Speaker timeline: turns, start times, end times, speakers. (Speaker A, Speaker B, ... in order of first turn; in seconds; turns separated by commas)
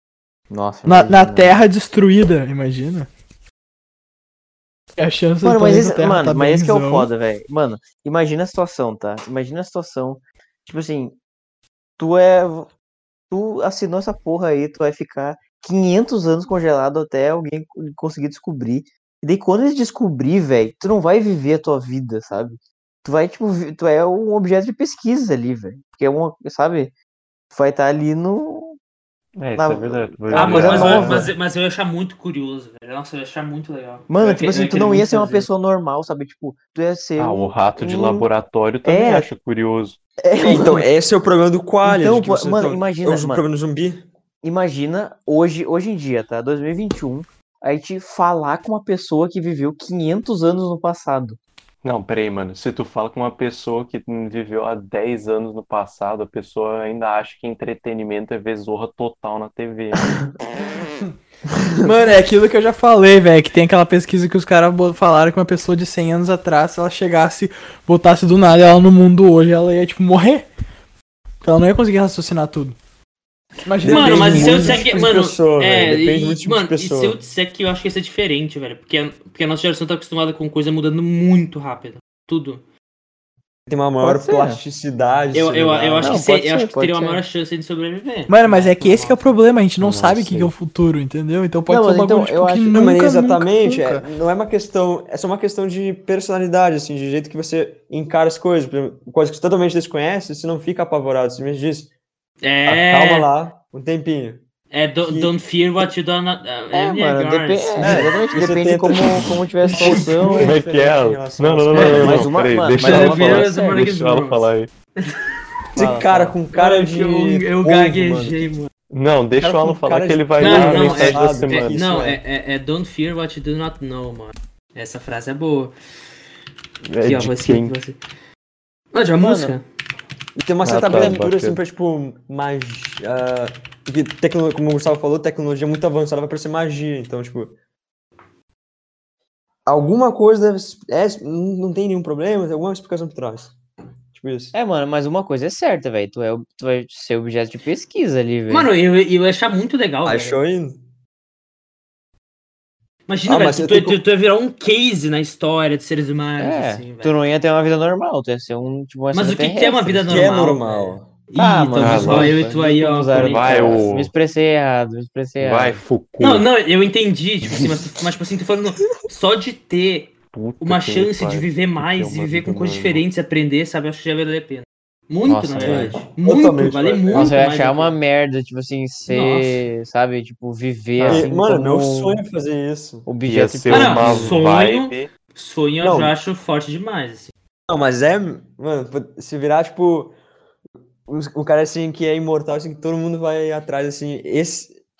Speaker A: 0.5-1.6, Speaker B: 0.8-3.1, Speaker B: 5.0-7.1, Speaker A: 5.4-11.2, Speaker A: 12.0-12.7, Speaker A: 13.3-26.9, Speaker A: 27.5-28.8, Speaker C: 29.4-31.3, Speaker A: 29.5-31.3, Speaker D: 30.3-35.5, Speaker E: 30.6-30.9, Speaker A: 34.1-38.3, Speaker C: 37.2-40.0, Speaker A: 38.8-39.3, Speaker A: 40.2-40.9, Speaker E: 40.4-44.0, Speaker A: 41.8-43.4, Speaker A: 44.4-51.4, Speaker C: 51.8-60.1, Speaker B: 61.8-70.5, Speaker B: 71.4-72.8, Speaker B: 73.6-75.0, Speaker E: 73.8-77.2, Speaker D: 73.8-82.6, Speaker E: 83.7-86.2, Speaker A: 84.0-84.6, Speaker D: 85.3-89.2, Speaker A: 86.0-87.2, Speaker B: 88.3-94.0, Speaker C: 89.8-90.5, Speaker A: 91.7-92.8, Speaker E: 92.7-101.9, Speaker D: 102.4-103.3, Speaker E: 102.7-104.4, Speaker D: 104.7-108.2, Speaker E: 105.0-105.3, Speaker A: 106.7-110.7, Speaker E: 107.8-112.5, Speaker D: 109.7-110.4, Speaker C: 110.4-114.7, Speaker A: 111.7-113.9, Speaker D: 112.8-118.7, Speaker E: 115.8-118.4, Speaker A: 115.9-116.2, Speaker C: 118.9-121.8, Speaker E: 119.4-122.2, Speaker D: 120.4-125.7, Speaker C: 126.8-127.7, Speaker D: 127.0-128.0, Speaker D: 128.9-129.6, Speaker A: 129.2-129.6, Speaker E: 130.3-137.5, Speaker C: 130.6-131.6, Speaker A: 130.9-131.2, Speaker E: 139.7-143.5, Speaker E: 144.1-144.5, Speaker A: 144.5-148.7, Speaker D: 148.5-150.4, Speaker E: 150.0-150.8, Speaker D: 153.1-157.2, Speaker E: 153.2-154.0, Speaker A: 156.4-160.3, Speaker D: 159.1-163.8, Speaker E: 160.1-161.1, Speaker A: 161.4-165.8, Speaker C: 161.8-162.4, Speaker C: 163.1-164.1, Speaker C: 165.4-166.4, Speaker D: 166.2-178.0, Speaker C: 170.3-173.0, Speaker A: 175.2-176.0, Speaker E: 175.6-177.4, Speaker A: 177.1-182.2, Speaker D: 179.1-179.6, Speaker E: 181.0-183.1, Speaker A: 183.1-184.4, Speaker C: 183.3-185.1, Speaker D: 183.7-187.3, Speaker E: 185.8-186.1, Speaker E: 187.7-190.2, Speaker E: 191.1-194.8